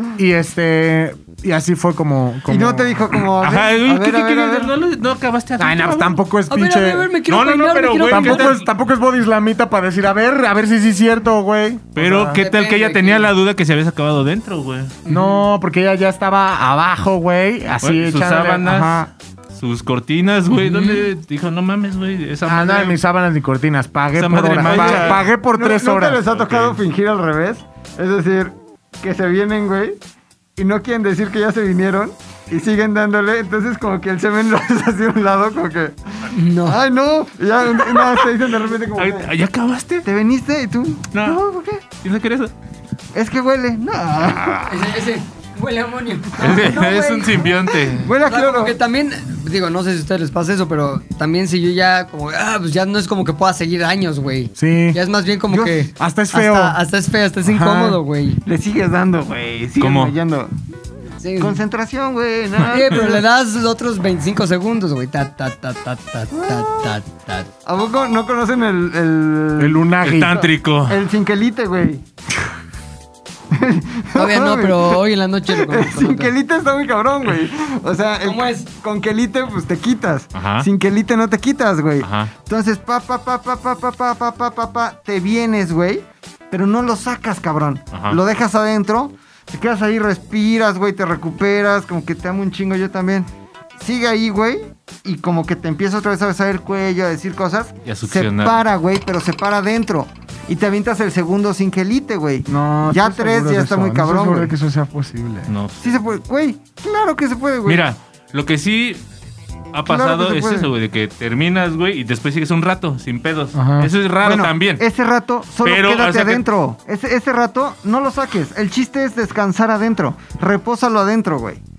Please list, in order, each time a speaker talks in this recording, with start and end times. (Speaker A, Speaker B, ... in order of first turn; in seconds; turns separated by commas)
Speaker A: 0.2-3.0, Speaker B: 2.5-4.7, Speaker C: 3.3-6.2, Speaker A: 5.6-7.1, Speaker D: 6.5-8.5, Speaker C: 7.3-8.7, Speaker A: 8.1-12.4, Speaker C: 11.9-15.0, Speaker D: 12.3-13.3, Speaker D: 15.1-15.4, Speaker A: 15.1-19.1, Speaker C: 17.8-23.0, Speaker D: 20.6-21.0, Speaker A: 22.4-26.2, Speaker C: 24.2-25.2, Speaker B: 24.6-30.0, Speaker C: 26.3-26.8, Speaker B: 30.6-39.3, Speaker D: 36.3-36.8, Speaker C: 37.8-38.3, Speaker C: 39.0-40.1, Speaker B: 40.0-41.8, Speaker C: 41.1-41.4, Speaker C: 42.0-42.5, Speaker B: 43.1-44.8, Speaker D: 44.6-47.5, Speaker C: 46.4-48.1, Speaker B: 47.9-48.8, Speaker D: 48.2-58.4, Speaker A: 54.6-55.0, Speaker B: 55.5-55.9, Speaker A: 56.0-56.8, Speaker A: 57.5-58.0, Speaker B: 58.4-60.5, Speaker C: 59.8-60.1, Speaker D: 61.2-61.6, Speaker B: 61.4-63.2, Speaker D: 62.6-67.5, Speaker B: 67.7-69.9, Speaker A: 69.6-70.5, Speaker C: 70.0-71.0, Speaker B: 70.4-72.0, Speaker B: 73.5-104.5, Speaker D: 74.2-76.3, Speaker D: 78.2-78.7, Speaker C: 80.3-80.7, Speaker C: 82.0-82.3, Speaker C: 87.9-88.2, Speaker C: 97.8-98.6, Speaker A: 102.5-105.5, Speaker C: 105.5-106.0, Speaker B: 105.8-107.8, Speaker C: 107.7-109.0, Speaker C: 109.7-114.8, Speaker B: 109.9-110.7, Speaker A: 113.5-113.9, Speaker B: 114.2-121.6, Speaker C: 115.6-116.4